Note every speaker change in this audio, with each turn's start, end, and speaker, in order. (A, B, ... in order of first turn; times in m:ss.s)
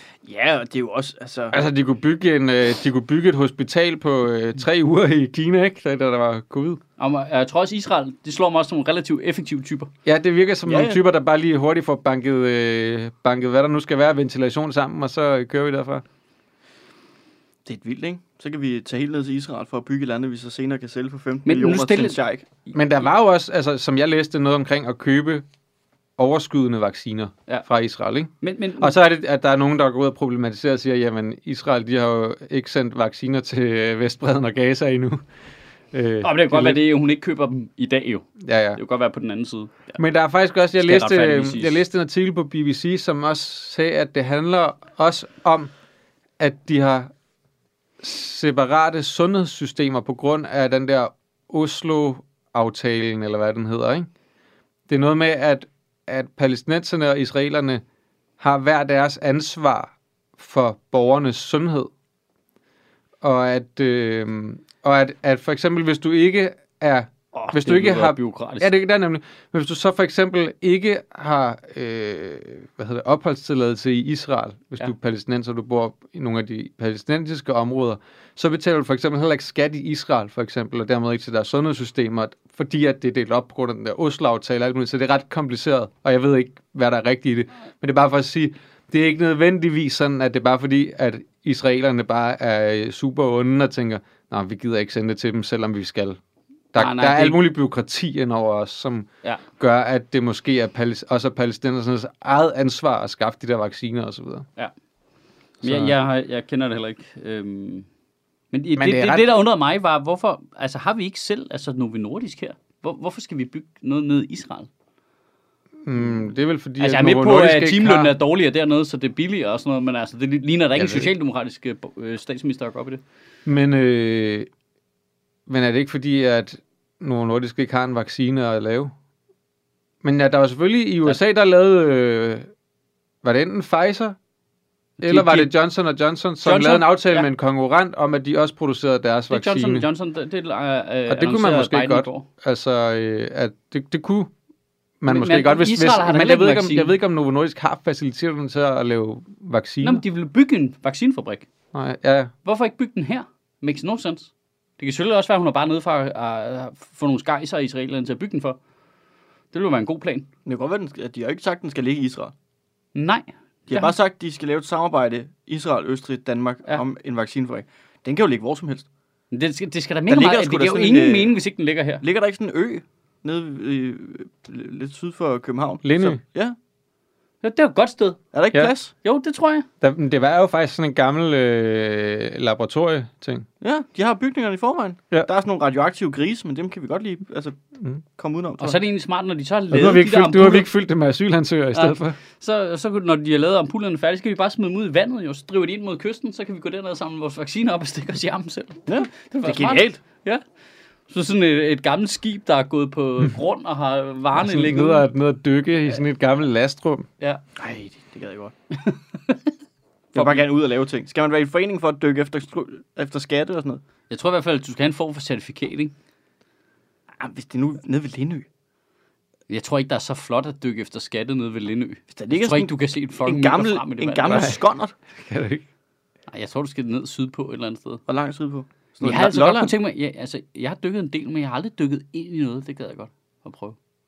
0:00.2-0:01.6 A
0:01.5-0:06.8 B
0:07.0-0:09.9 C
0:10.1-0:16.0 B
0:10.7-0:11.0 A
0:17.7-0:22.5 A
0:21.5-0:22.2 C
0:22.7-0:25.4 B
0:26.2-0:35.2 B
0:28.4-0:28.9 C
0:35.9-0:36.8 B
0:36.2-0:39.9 C
0:38.4-0:38.8 B
0:40.0-0:45.7 B
0:40.8-0:41.8 C
0:46.4-0:47.1 B
0:48.0-0:54.1 B
0:54.9-0:57.8 B
0:58.4-1:01.9 B
1:03.2-1:36.2 B
1:07.3-1:08.7 C
1:36.7-1:44.4 B
1:36.8-1:37.4 C
1:45.6-1:46.0 B
1:45.6-1:47.9 C
1:48.5-1:54.7 C
1:48.8-1:49.3 B
1:55.8-1:58.1 B
1:56.8-2:03.0 C
2:00.8-2:01.1 B
2:03.5-2:04.5 B
2:05.5-2:08.9 B
2:10.0-2:12.5 B
2:13.2-2:14.2 B
2:15.0-2:15.5 C
2:15.0-2:19.9 B
2:16.4-2:17.3 C
2:19.3-2:22.3 C
2:21.1-2:24.3 B
2:25.0-2:30.0 B
2:25.1-2:27.0 C
2:29.8-2:31.5 C
2:31.7-2:32.3 B
2:32.4-2:38.6 C
2:39.5-2:40.3 C
2:40.5-2:42.3 A
2:43.0-2:43.9 C
2:43.7-2:48.9 A
2:49.3-2:52.0 C
2:50.1-2:51.3 A
2:52.0-2:56.6 A
2:55.8-2:56.2 B
2:57.4-2:58.2 C
2:58.3-2:58.9 A
2:59.0-2:59.7 C
2:59.8-3:03.5 B
3:03.6-3:07.6 A
3:08.2-3:08.8 A
3:08.6-3:10.7 C
3:09.7-3:12.2 B
3:11.7-3:20.4 C
3:18.9-3:20.0 A
3:21.1-3:25.1 C
3:24.4-3:27.1 B
3:27.6-3:28.5 A
3:28.8-3:29.4 C
3:30.1-3:30.5 C
3:30.2-3:33.8 A
3:34.1-3:35.9 C
3:37.2-3:38.5 A
3:39.5-3:44.6 C
3:42.1-3:44.9 A
3:44.3-3:44.6 B
3:45.2-3:45.6 B
3:46.3-3:48.0 C
3:48.1-3:49.8 A
3:49.0-3:53.8 C